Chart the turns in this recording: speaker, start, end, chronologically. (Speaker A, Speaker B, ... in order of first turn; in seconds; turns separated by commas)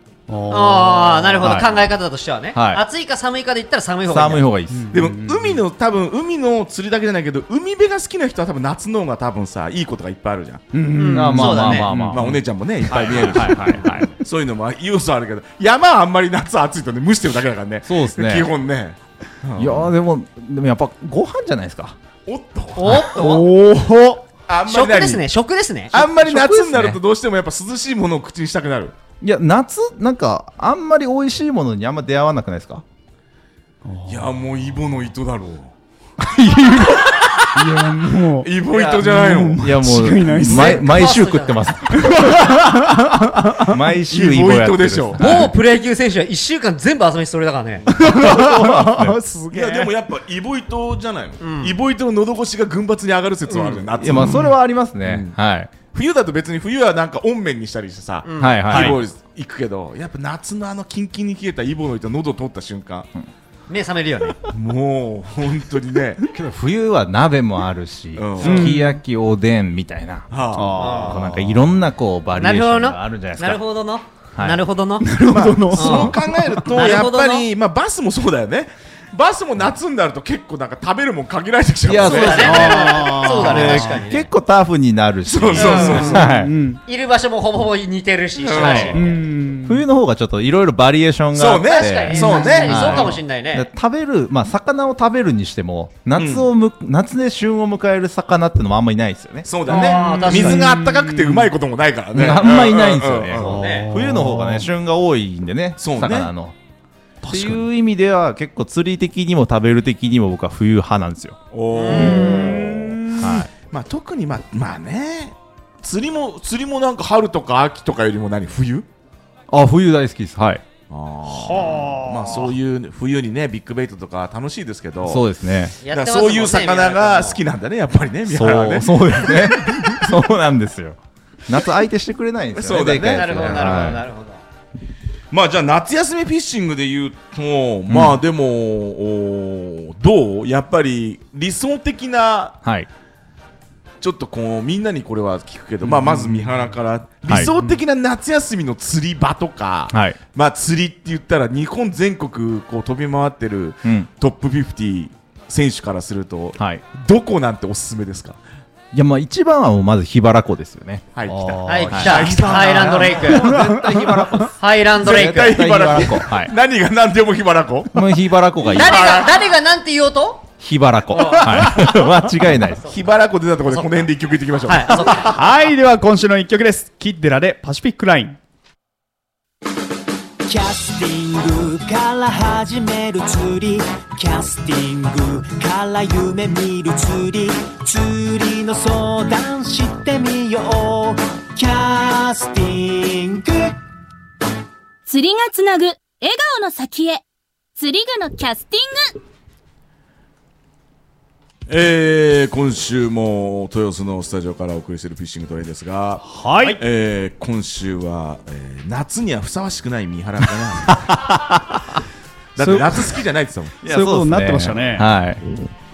Speaker A: 0.3-1.6, Speaker B: 0.5-4.5, Speaker C: 1.4-1.8, Speaker C: 2.5-2.8, Speaker C: 4.1-5.0, Speaker A: 4.7-5.6, Speaker D: 4.9-10.6, Speaker A: 10.7-12.2, Speaker B: 10.9-11.9, Speaker C: 11.1-14.1, Speaker D: 11.9-19.9, Speaker C: 17.9-18.5, Speaker C: 19.6-22.0, Speaker D: 22.2-23.1, Speaker B: 22.8-23.5, Speaker A: 22.9-24.2, Speaker D: 24.5-25.2, Speaker B: 24.7-25.9, Speaker C: 25.9-27.0, Speaker D: 25.9-28.9, Speaker C: 29.2-32.8, Speaker A: 33.8-34.4, Speaker D: 34.0-35.7, Speaker C: 36.2-37.2, Speaker D: 37.3-37.8, Speaker A: 37.5-40.8, Speaker D: 38.4-40.8, Speaker C: 38.7-42.9, Speaker B: 40.5-42.2, Speaker A: 41.9-43.8, Speaker C: 43.5-45.5, Speaker D: 44.1-45.4, Speaker B: 45.2-47.9, Speaker A: 47.9-49.9, Speaker C: 48.0-49.2, Speaker D: 49.5-54.5, Speaker B: 51.4-51.8, Speaker B: 53.5-53.9, Speaker C: 54.0-55.7, Speaker A: 54.1-54.5, Speaker D: 55.0-55.4, Speaker D: 55.9-63.1, Speaker B: 58.2-58.7, Speaker C: 58.4-59.0, Speaker B: 63.7-64.4, Speaker D: 64.5-66.2, Speaker C: 66.3-73.6, Speaker D: 68.1-68.8, Speaker A: 68.4-69.0, Speaker D: 70.3-71.3, Speaker A: 70.5-71.3, Speaker B: 70.8-71.2, Speaker B: 72.3-75.1, Speaker C: 74.3-74.6, Speaker A: 75.0-76.7, Speaker D: 75.3-82.8, Speaker B: 75.7-76.2, Speaker B: 76.7-77.5, Speaker C: 81.8-86.5, Speaker B: 82.0-84.3, Speaker A: 82.2-84.0, Speaker D: 85.2-86.3, Speaker B: 85.5-86.2, Speaker A: 85.8-86.8, Speaker B: 86.8-89.2, Speaker D: 88.4-89.0, Speaker C: 88.6-89.0, Speaker A: 88.9-89.8, Speaker C: 89.6-99.5, Speaker D: 91.3-93.2, Speaker B: 91.6-93.7, Speaker A: 92.3-92.6, Speaker D: 96.2-96.5, Speaker D: 99.5-103.7, Speaker B: 99.7-100.7, Speaker A: 99.7-101.5, Speaker C: 102.1-106.5, Speaker B: 103.4-103.9, Speaker A: 103.4-104.7, Speaker D: 105.8-106.3, Speaker A: 107.2-107.6, Speaker C: 107.2-111.4, Speaker D: 111.5-118.8, Speaker B: 111.7-112.7, Speaker A: 111.9-113.4, Speaker C: 113.1-113.5, Speaker C: 119.5-120.6, Speaker D: 120.9-125.2, Speaker A: 121.2-122.5, Speaker C: 125.0-125.7, Speaker B: 125.8-127.4, Speaker D: 125.8-130.1, Speaker C: 128.3-134.0, Speaker D: 132.5-133.9, Speaker B: 133.0-134.4, Speaker D: 135.3-142.6, Speaker C: 137.9-138.2, Speaker D: 144.0-158.4, Speaker A: 146.1-146.4, Speaker C: 147.3-147.5, Speaker C: 149.9-150.2, Speaker C: 153.8-154.1, Speaker C: 156.6-156.8, Speaker C: 158.9-166.5, Speaker D: 161.1-163.3, Speaker B: 161.7-163.5, Speaker A: 162.0-164.5, Speaker B: 164.6-165.6, Speaker D: 165.0-168.0, Speaker C: 167.9-169.1, Speaker D: 168.7-169.3, Speaker B: 168.7-170.4, Speaker C: 170.6-172.9, Speaker B: 171.1-171.4, Speaker A: 171.4-171.8, Speaker D: 172.8-175.3, Speaker B: 173.7-174.1, Speaker B: 174.6-175.3, Speaker A: 175.1-178.4, Speaker E: 180.4-193.8, Speaker F: 195.1-197.2, Speaker F: 197.8-199.2, Speaker D: 201.7-211.2, Speaker A: 206.2-206.8, Speaker C: 210.9-212.0, Speaker D: 212.6-213.8, Speaker A: 212.6-213.0, Speaker C: 213.8-215.4, Speaker A: 213.8-215.1